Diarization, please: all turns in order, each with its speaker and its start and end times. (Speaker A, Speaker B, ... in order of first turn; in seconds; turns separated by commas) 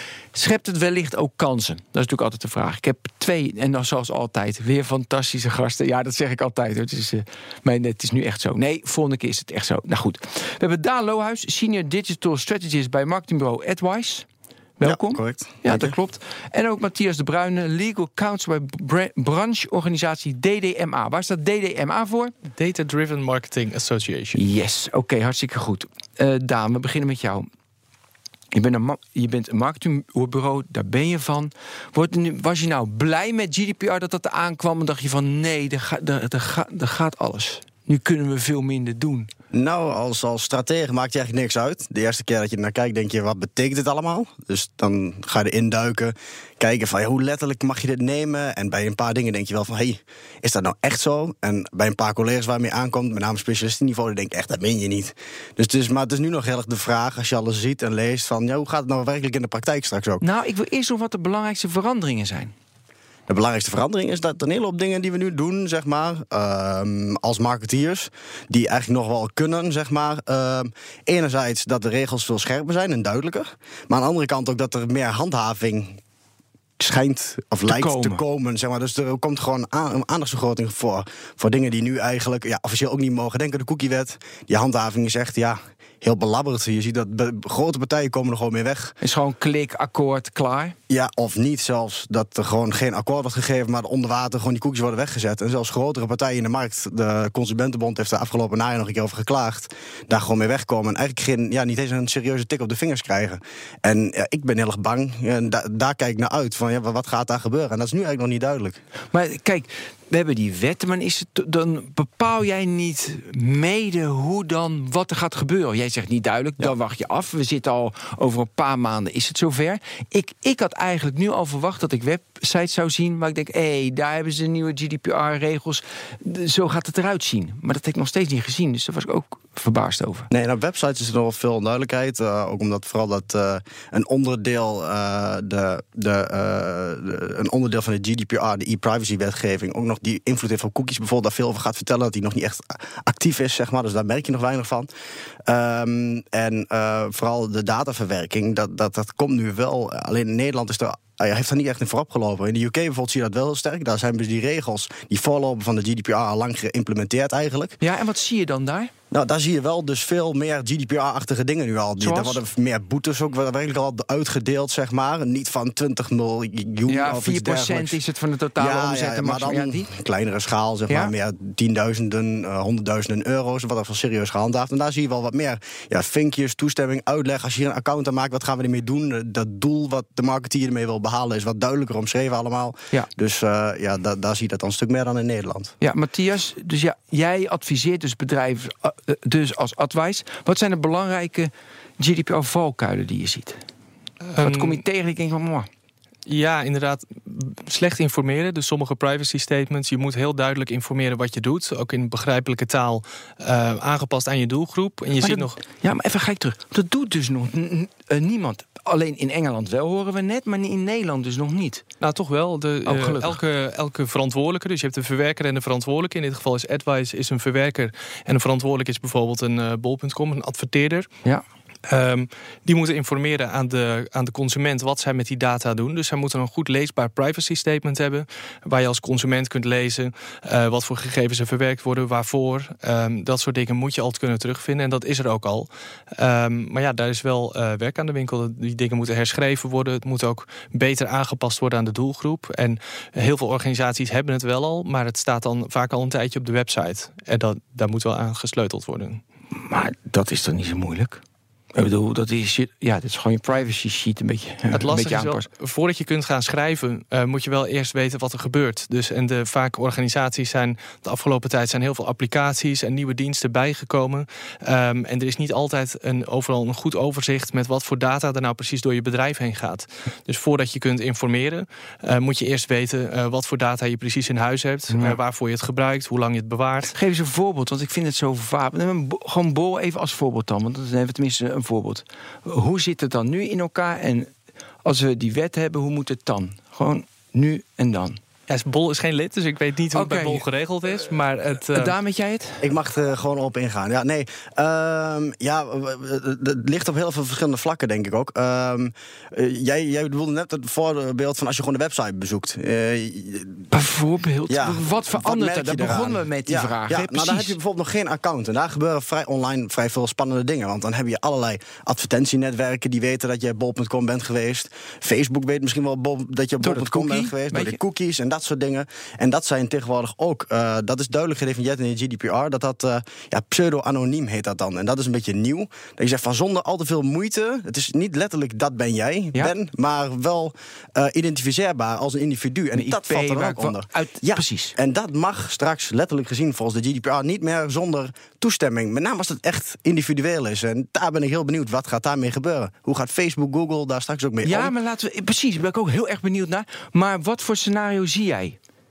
Speaker A: 0.3-14.3, Speaker A: 14.8-22.3, Speaker B: 14.8-15.9, Speaker C: 22.5-24.4, Speaker A: 24.4-27.5, Speaker A: 28.5-39.3, Speaker B: 39.5-60.2, Speaker A: 60.2-62.5, Speaker B: 63.3-76.0, Speaker B: 76.8-89.0, Speaker A: 77.7-78.2, Speaker A: 89.0-90.8, Speaker B: 90.9-108.8, Speaker A: 109.1-130.3, Speaker B: 130.3-144.9, Speaker B: 145.5-157.8, Speaker A: 157.8-158.9, Speaker B: 159.1-168.0, Speaker A: 162.0-162.4, Speaker A: 166.9-169.9, Speaker B: 168.6-185.8, Speaker A: 185.8-193.6, Speaker C: 194.3-194.8, Speaker A: 194.4-195.7, Speaker C: 196.3-205.6, Speaker A: 205.2-211.8, Speaker C: 212.0-221.1, Speaker A: 212.8-213.4, Speaker C: 221.9-249.2, Speaker A: 249.5-251.2, Speaker A: 251.7-255.5, Speaker C: 254.7-276.9, Speaker A: 274.9-275.2, Speaker A: 276.9-284.3, Speaker A: 284.9-288.2, Speaker C: 288.5-291.9, Speaker A: 289.9-290.4, Speaker A: 291.7-292.7, Speaker B: 292.6-303.7, Speaker A: 303.7-307.6, Speaker B: 304.5-344.7, Speaker A: 316.6-317.8, Speaker A: 332.8-334.8, Speaker A: 344.4-348.6